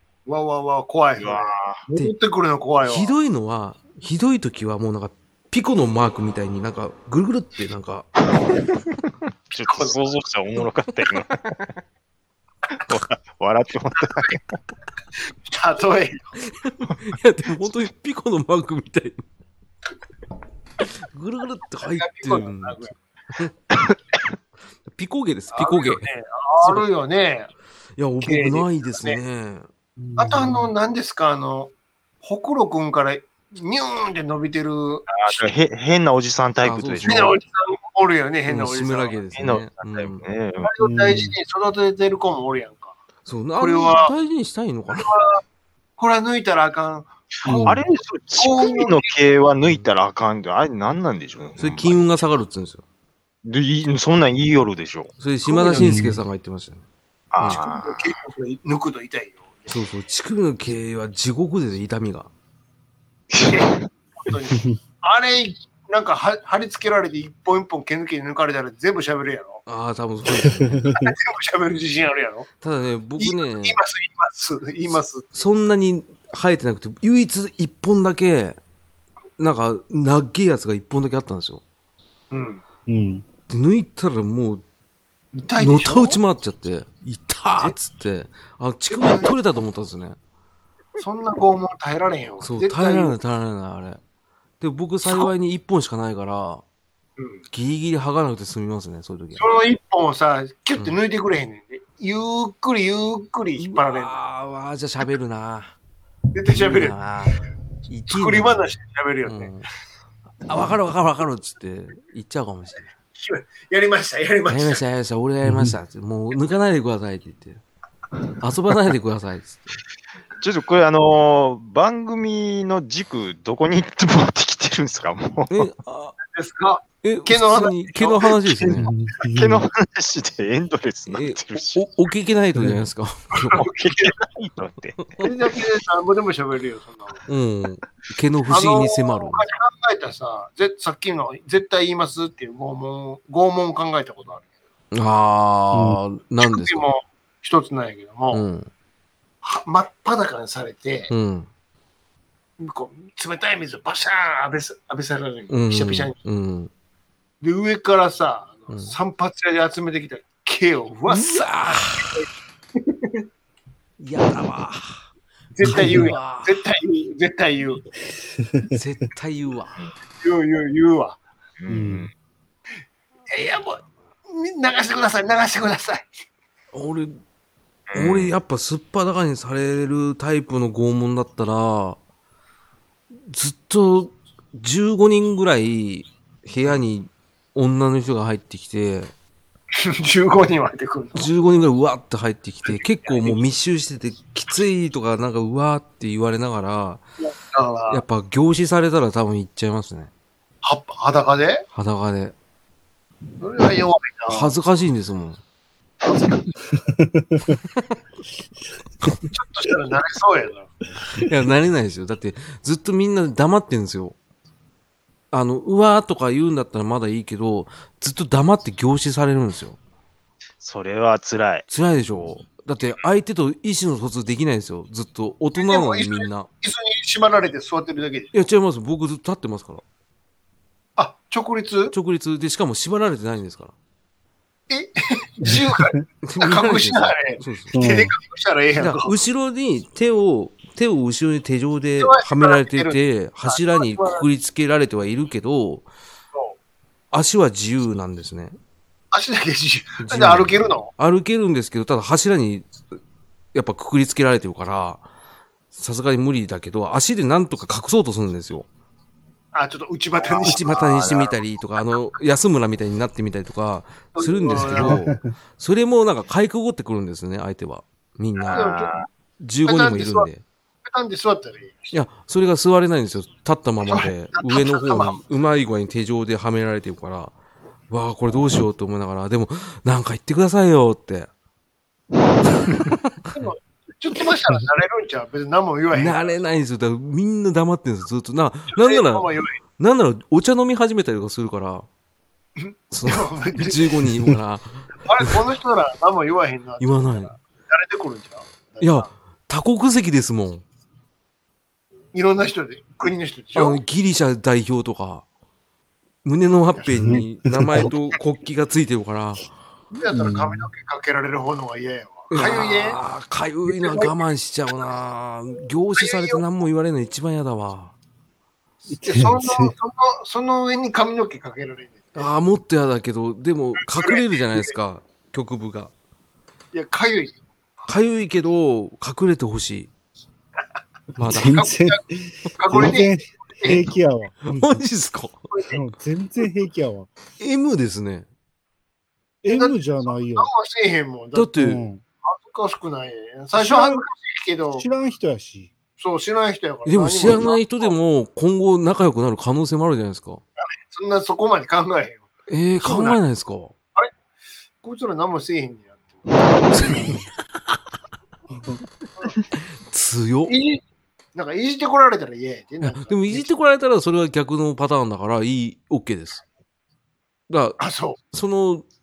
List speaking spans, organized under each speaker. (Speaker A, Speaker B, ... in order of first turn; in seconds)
Speaker A: 0.3-3.1, 9.5-10.0, 15.5-16.3, 21.8-22.9, 25.5-27.5, 28.2-29.2, 30.2-35.5, 37.0-39.2, 40.6-43.0, 43.6-44.1, 44.9-45.4, 46.0-47.6, 48.4-49.1, 55.5-56.1, 57.5-59.8, 63.4-69.6, 70.9-72.5, 73.2-75.3, 82.3-82.6, 85.3-86.2, 88.9-89.3, 91.0-93.2, 95.0-95.3, 99.4-104.1, 106.3-107.0, 108.1-109.5, 113.1-114.8, 126.3-128.9, 135.2-137.3, 138.5-144.5, 146.4-148.4, 149.4-151.1, 152.6-156.2, 157.4-163.2, 165.6-167.8, 170.2-171.2, 173.3-176.1, 189.8-191.3, 192.7-193.4, 197.2-198.1, 200.6-201.7, 203.4-204.5, 206.0-206.5, 209.3-210.7, 225.6-228.3, 231.0-231.9, 234.7-239.1, 242.0-244.3, 249.1-250.9, 259.5-261.3, 264.1-265.0, 268.5-268.9, 269.6-270.3, 270.9-272.0, 273.9-275.2, 283.3-286.4, 288.7-289.6, 292.6-294.1, 295.0-299.1, 302.1-303.8, 306.8-307.2, 309.9-313.0, 313.7-314.1, 316.0-316.4, 319.0-322.3, 323.8-324.7, 326.7-327.4, 331.3-332.0, 332.6-333.9, 335.5-335.8, 339.5-341.5, 342.2-344.9, 346.0-347.9, 350.9-352.3, 352.8-353.2, 354.8-357.2, 360.5-360.8, 361.4-363.5, 367.8-368.2
Speaker B: 1.2-1.8, 9.5-11.7, 12.8-14.4, 35.1-37.4, 39.4-40.7, 47.4-52.0, 53.4-55.1, 57.3-58.1, 63.3-63.9, 120.4-125.7, 129.3-131.8, 133.5-135.2, 171.6-172.1, 177.9-178.4, 220.6-221.7, 260.2-261.3, 268.5-269.1
Speaker C: 2.9-8.1, 16.6-19.2, 20.8-23.5, 24.9-26.1, 26.6-26.9, 28.0-29.7, 36.6-37.4, 38.5-40.2, 43.3-45.1, 51.6-52.8, 55.2-56.8, 59.7-62.3, 69.7-70.9, 72.6-73.8, 75.3-78.6, 79.4-81.6, 83.5-84.6, 85.6-90.2, 92.4-94.0, 94.6-96.6, 97.5-99.5, 103.6-105.8, 106.5-109.7, 110.5-112.9, 114.5-117.6, 118.4-119.8, 125.5-126.2, 127.0-128.9, 131.1-133.7, 135.0-135.3, 137.3-139.4, 144.9-146.9, 148.3-148.7, 151.1-151.5, 155.5-156.7, 158.7-158.9, 161.1-162.2, 164.0-165.0, 165.6-166.6, 168.7-169.8, 176.7-177.2, 177.9-182.0, 183.2-189.1, 191.2-197.0, 197.9-200.1, 201.7-202.3, 204.3-205.4, 211.2-214.2, 215.3-219.8, 221.7-226.5, 228.3-229.8, 231.9-233.7, 236.2-238.1, 238.8-245.9, 247.1-248.6, 250.0-252.8, 253.5-255.0, 255.7-258.7, 260.4-268.7, 269.4-270.4, 271.9-277.4, 277.9-281.3, 285.9-291.9, 292.9-295.4, 296.8-297.3, 298.8-300.6, 303.6-305.2, 306.2-309.5, 312.3-317.9, 322.1-325.9, 327.9-329.9, 331.2-331.6, 334.4-335.4, 337.4-338.3, 341.3-341.8, 346.9-350.4, 352.5-353.7, 356.7-357.2, 359.6-360.6, 362.8-366.4, 367.5-368.9
Speaker D: 30.0-30.7, 40.8-41.4, 47.5-47.8, 55.8-56.2, 70.3-71.1, 82.9-83.3, 115.4-115.8, 128.8-129.7, 132.6-132.8, 145.7-146.0, 165.6-166.1, 171.7-172.1, 206.9-207.6, 235.4-236.0, 237.7-238.1, 264.8-265.2, 307.0-307.9, 310.1-310.7, 318.9-319.7, 331.2-334.8, 335.7-337.1, 339.4-340.5, 341.6-342.0, 343.5-344.1, 344.8-345.7